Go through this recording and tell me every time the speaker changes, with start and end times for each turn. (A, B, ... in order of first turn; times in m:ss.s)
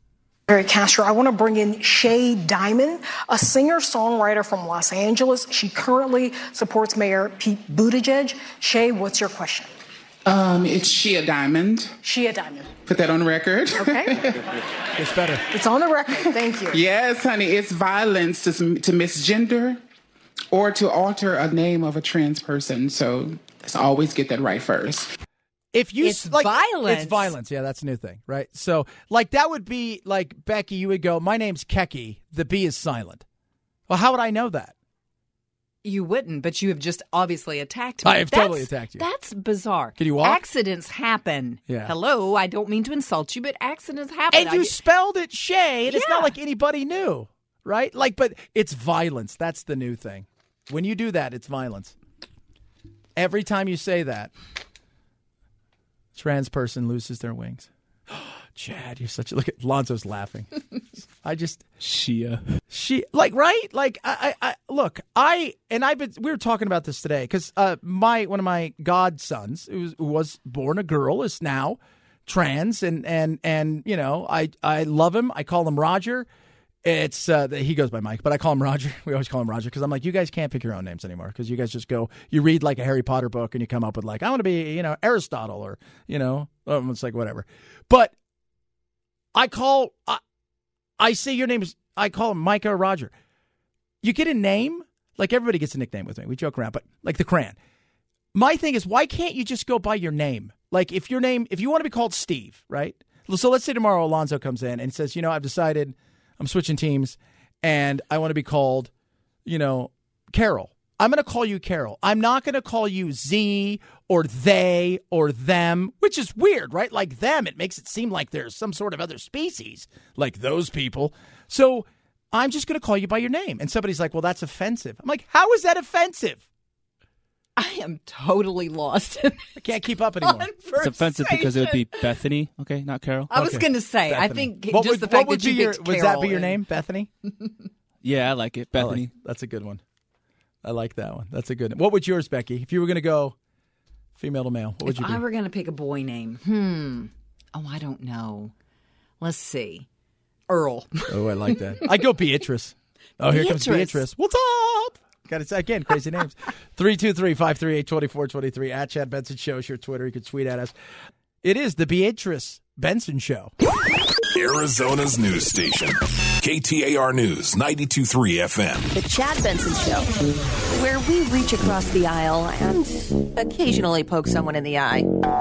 0:00.5-0:09.7 A
0:10.3-0:11.9 B
0:12.0-0:12.7 A
0:12.9-0:14.4 B
0:13.8-0:14.2 A
0:15.0-0:15.4 C
0:15.5-0:16.8 A
0:16.7-0:19.8 B
0:20.5-0:25.1 B
0:25.7-0:33.2 C
0:26.0-0:27.3 D
0:33.9-0:34.8 C
0:35.8-0:44.8 D
0:38.0-0:39.0 C
0:40.0-0:40.4 C
0:41.7-0:41.9 C
0:44.3-0:52.0 C
0:45.9-0:46.3 D
0:53.2-0:54.3 C
0:56.2-1:01.6 C
1:01.8-1:02.4 E
1:02.7-1:16.3 C
1:16.8-1:28.2 C
1:29.3-1:30.2 C
1:31.0-1:33.1 C
1:34.0-1:37.6 C
1:38.3-1:48.9 C
1:49.5-2:06.4 C
2:07.6-2:09.5 D
2:09.6-2:10.5 C
2:10.2-2:12.0 D
2:10.8-2:13.3 E
2:13.3-2:16.6 D
2:13.3-2:17.1 C
2:18.0-2:19.1 E
2:18.8-2:19.8 C
2:20.6-2:23.4 C
2:24.2-2:25.2 C
2:24.8-2:28.5 D
2:29.2-2:29.9 D
2:30.5-2:31.1 D
2:31.1-2:40.7 C
2:33.3-2:34.0 D
2:41.4-2:43.5 C
2:44.3-2:48.9 F
2:48.9-2:50.1 G
2:50.7-2:55.1 G